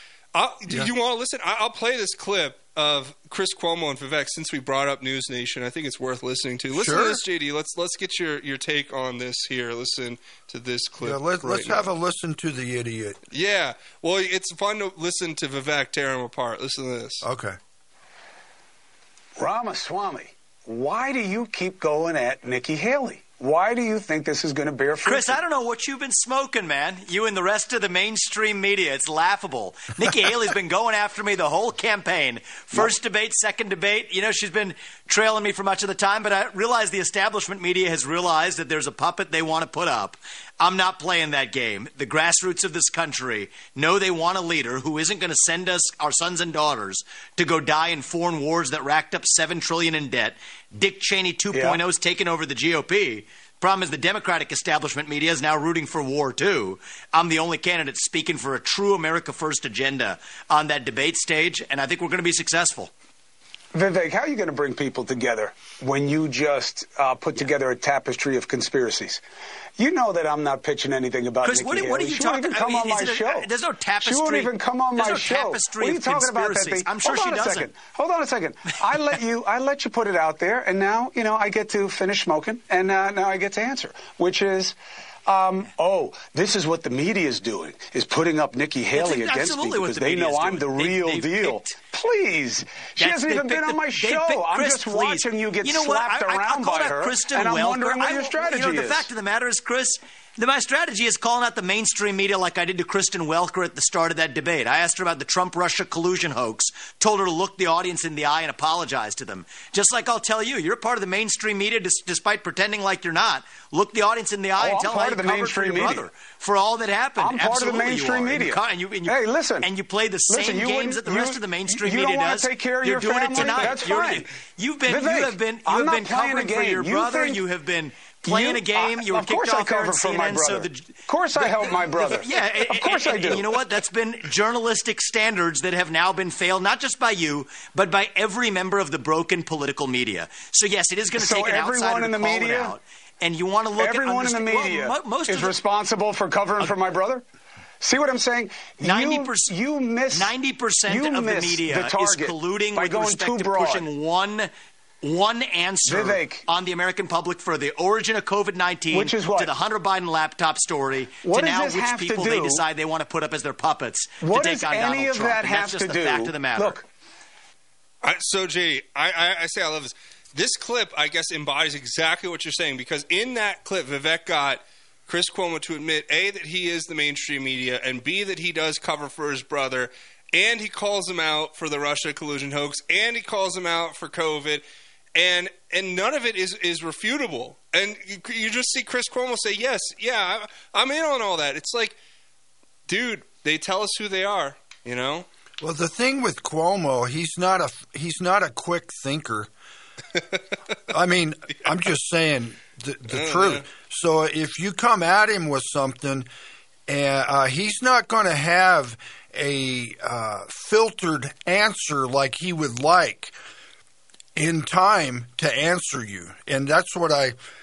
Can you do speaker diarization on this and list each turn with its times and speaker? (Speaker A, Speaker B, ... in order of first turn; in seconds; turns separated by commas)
Speaker A: 0.3-11.9, Speaker B: 6.7-7.2, Speaker B: 11.0-13.2, Speaker A: 13.3-17.2, Speaker B: 17.2-17.6, Speaker C: 19.4-25.4, Speaker D: 25.0-62.9, Speaker C: 51.5-51.8, Speaker C: 63.7-69.2, Speaker C: 69.8-73.5, Speaker D: 71.4-77.7, Speaker C: 74.0-84.8, Speaker C: 85.3-99.1, Speaker D: 88.9-91.8, Speaker D: 93.0-145.5, Speaker C: 114.6-116.0, Speaker C: 117.2-119.7, Speaker C: 120.3-124.3, Speaker C: 124.9-127.4, Speaker C: 128.2-133.6, Speaker C: 141.2-142.7, Speaker C: 143.7-147.2, Speaker C: 147.8-150.3, Speaker D: 148.8-149.5, Speaker D: 150.1-154.5, Speaker C: 150.9-153.9, Speaker D: 155.0-166.8, Speaker C: 155.8-156.4, Speaker C: 158.9-159.5, Speaker C: 161.2-162.6, Speaker C: 164.2-166.8, Speaker A: 168.0-184.6, Speaker A: 185.1-192.0, Speaker A: 192.9-195.3, Speaker B: 195.6-199.5, Speaker B: 200.9-206.3, Speaker A: 203.1-203.6, Speaker B: 206.9-213.3, Speaker B: 214.3-217.3